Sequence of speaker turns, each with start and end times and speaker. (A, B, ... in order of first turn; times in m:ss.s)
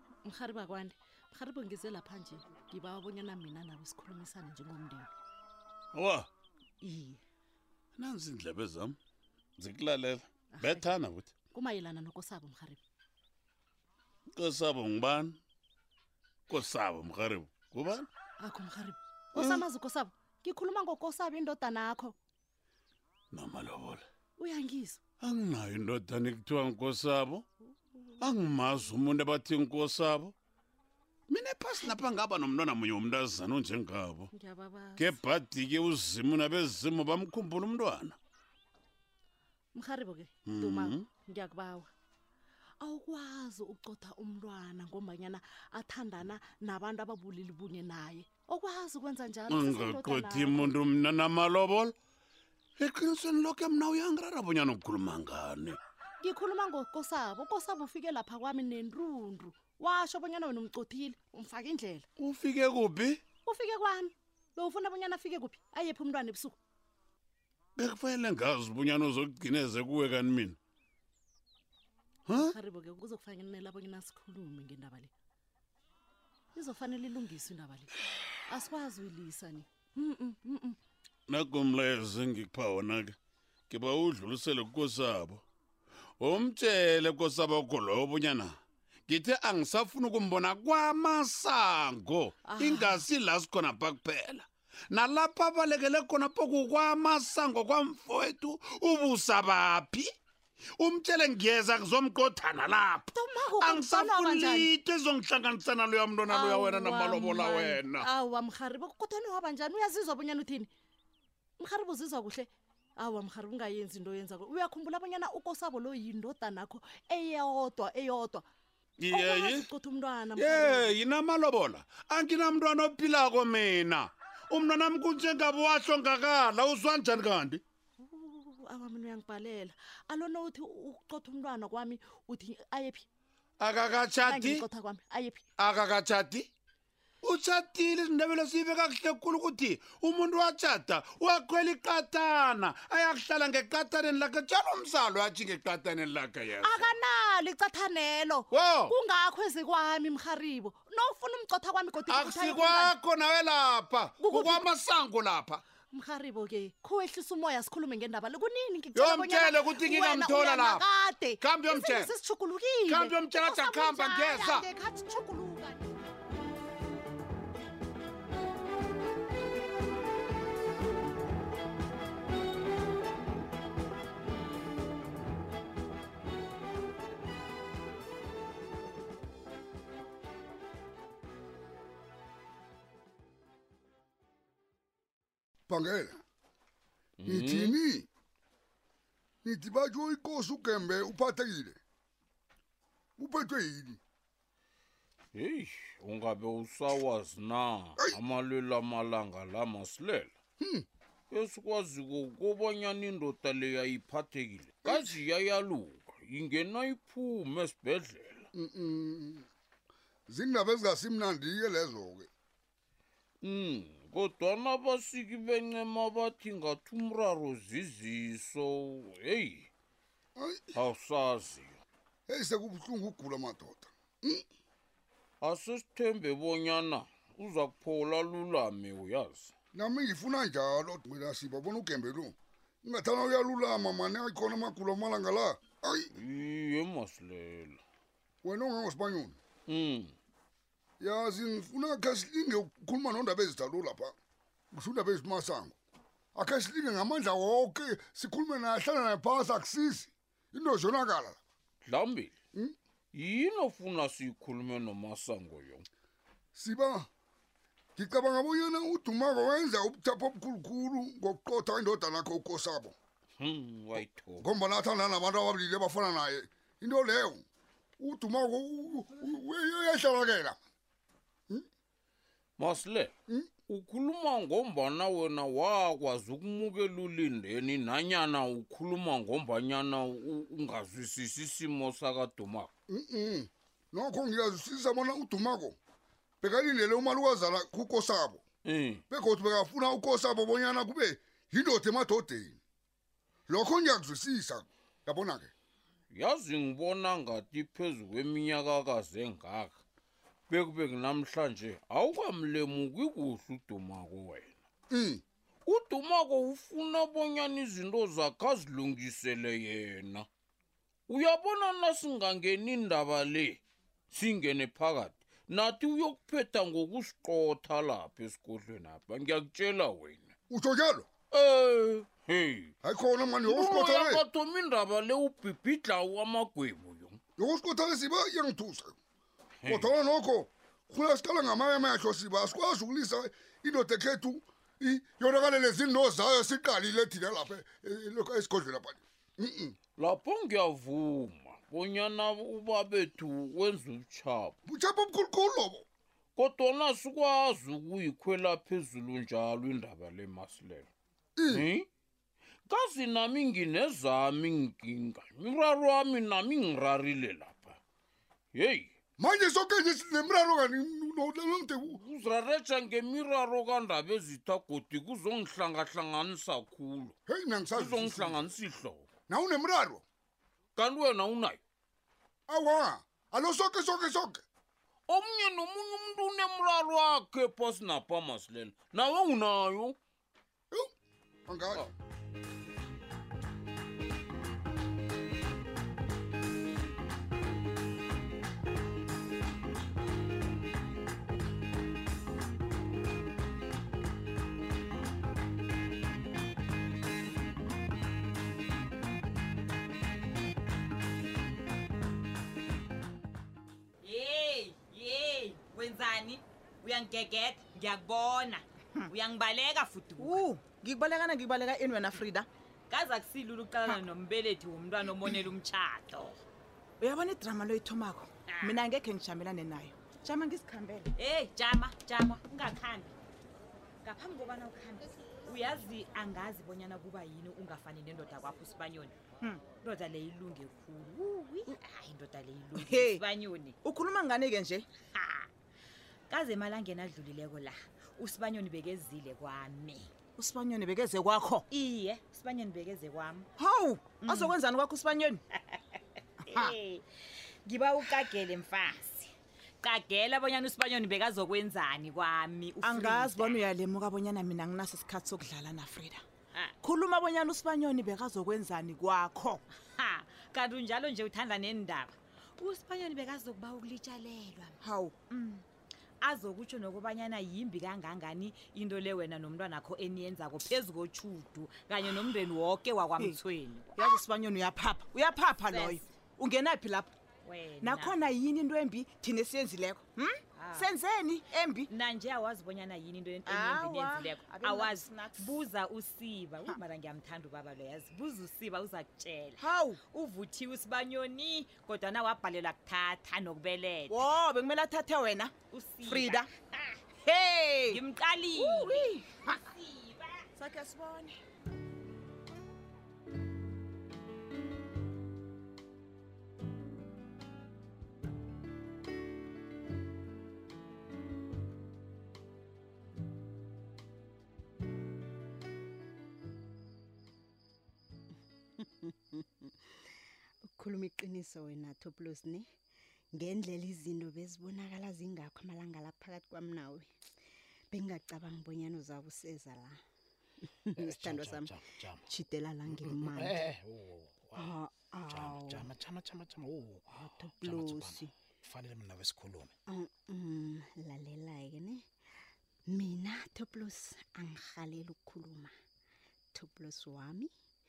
0:00.2-0:05.1 A
0:05.9-0:06.3 B
0:06.8-0:07.2 A
0:08.0-0:09.0 B
0:09.6-0:11.3 B
0:10.5-0:10.9 A
0:11.5-0:12.8 A
0:14.4-0:15.4 B
0:16.5-0:18.1 B
0:18.4-0:22.2 A
0:19.3-0:19.6 B
0:23.3-0:24.0 B
0:24.4-0:25.0 A
0:25.2-0:27.4 B
0:28.2-0:30.3 B
0:31.3-0:34.3 B
0:34.3-0:35.2 A
0:35.0-0:38.2 B
0:39.7-0:41.9 A
0:40.4-0:41.0 B
0:42.8-0:50.8 A
0:49.5-0:51.9 B
0:52.8-0:55.8 B
0:56.2-1:02.1 A
1:02.2-1:03.2 B
1:03.4-1:06.6 A
1:07.8-1:10.6 B
1:12.3-1:12.5 B
1:12.3-1:15.1 A
1:16.5-1:17.9 A
1:18.4-1:20.8 A
1:21.3-1:23.2 B
1:23.7-1:25.4 B
1:26.2-1:28.5 B
1:29.1-1:40.1 B
1:32.4-1:33.0 A
1:40.8-1:43.1 B
1:43.1-1:44.7 A
1:43.6-1:48.1 B
1:46.3-1:50.7 A
1:51.6-1:58.4 A
1:59.0-1:59.7 B
1:59.1-2:01.0 A
2:00.4-2:07.6 B
2:08.0-2:13.0 A
2:13.6-2:14.6 B
2:14.2-2:15.4 A
2:15.6-2:16.5 B
2:17.2-2:26.9 B
2:26.6-2:32.9 A
2:28.5-2:28.9 B
2:32.1-2:35.6 B
2:34.2-2:34.6 A
2:35.9-2:45.9 A
2:38.9-2:40.8 B
2:41.4-2:42.1 B
2:42.9-2:44.6 B
3:05.7-3:06.2 C
3:07.2-3:07.8 D
3:07.2-3:08.1 C
3:09.4-3:11.8 C
3:13.2-3:14.0 C
3:15.3-3:20.3 D
3:20.6-3:20.8 C
3:21.3-3:28.5 D
3:24.8-3:25.2 C
3:28.5-3:29.4 C
3:30.3-3:32.3 C
3:33.4-3:39.7 D
3:40.4-3:40.6 C
3:40.7-3:41.8 D
3:42.3-3:44.4 C
3:45.4-3:49.5 D
3:49.7-3:56.1 C
3:56.1-3:57.8 D
3:58.4-3:59.4 C
3:59.7-4:00.1 D
4:01.0-4:04.1 C
4:04.7-4:05.8 C
4:06.3-4:11.4 C
4:11.8-4:12.3 D
4:13.1-4:15.8 D
4:16.5-4:17.1 C
4:18.0-4:22.9 C
4:23.4-4:24.5 D
4:24.4-4:27.4 C
4:28.0-4:30.6 C
4:32.6-4:33.1 D
4:33.7-4:42.7 D
4:42.9-4:45.8 C
4:46.4-4:48.4 C
4:48.6-4:49.0 D
4:49.1-4:52.6 C
4:53.5-4:55.5 C
4:56.1-4:59.8 D
5:00.5-5:04.5 D
5:04.9-5:05.2 C
5:05.6-5:10.3 D
5:11.1-5:20.3 D
5:20.5-5:21.1 C
5:21.3-5:22.7 D
5:22.8-5:24.2 C
5:23.4-5:27.2 D
5:27.4-5:28.9 C
5:29.6-5:29.9 D
5:29.7-5:39.8 C
5:40.0-5:44.6 D
5:44.7-5:45.8 C
5:46.4-5:50.9 D
5:51.4-5:51.6 C
5:51.5-5:51.9 D
5:52.7-5:57.8 D
5:58.5-5:58.9 D
5:59.2-6:02.0 C
6:01.9-6:07.2 D
6:07.3-6:08.4 C
6:07.7-6:09.1 D
6:09.3-6:10.0 C
6:10.8-6:11.6 D
6:12.5-6:14.4 C
6:15.1-6:20.0 D
6:21.5-6:21.9 C
6:44.0-6:50.5 E
6:50.2-6:52.5 F
6:52.9-6:56.4 E
6:57.0-7:01.1 F
6:58.4-6:58.8 E
7:01.2-7:03.2 E
7:04.0-7:09.2 E
7:09.7-7:13.8 E
7:12.8-7:13.2 F
7:13.8-7:14.9 F
7:15.0-7:15.5 E
7:16.3-7:20.1 E
7:20.4-7:21.6 F
7:21.7-7:23.5 E
7:23.6-7:25.4 F
7:24.2-7:24.5 E
7:25.5-7:27.1 E
7:27.6-7:33.6 E
7:32.8-7:36.2 F
7:36.8-7:39.6 F
7:39.7-7:44.8 E
7:44.8-7:45.6 F
7:46.2-7:54.0 E
7:54.0-7:57.1 F
7:55.7-7:56.0 E
7:57.4-7:58.2 E
7:57.8-8:01.9 F
8:00.5-8:00.9 E
8:01.9-8:14.2 E
8:03.5-8:05.5 F
8:09.6-8:10.0 F
8:14.1-8:16.5 F
8:15.6-8:16.9 E
8:17.2-8:18.0 F
8:17.9-8:20.4 E
8:18.6-8:19.6 F
8:20.6-8:21.4 F
8:38.8-8:39.7 G
8:40.7-8:42.7 G
8:43.3-8:47.1 G
8:47.9-8:50.0 G
8:50.7-8:53.6 G
8:51.0-8:52.2 H
8:53.0-8:54.7 H
8:54.5-8:56.0 G
8:55.3-8:57.1 H
8:57.1-8:58.3 G
8:57.6-8:59.7 H
8:59.9-9:02.0 G
9:02.9-9:05.7 G
9:06.5-9:07.5 G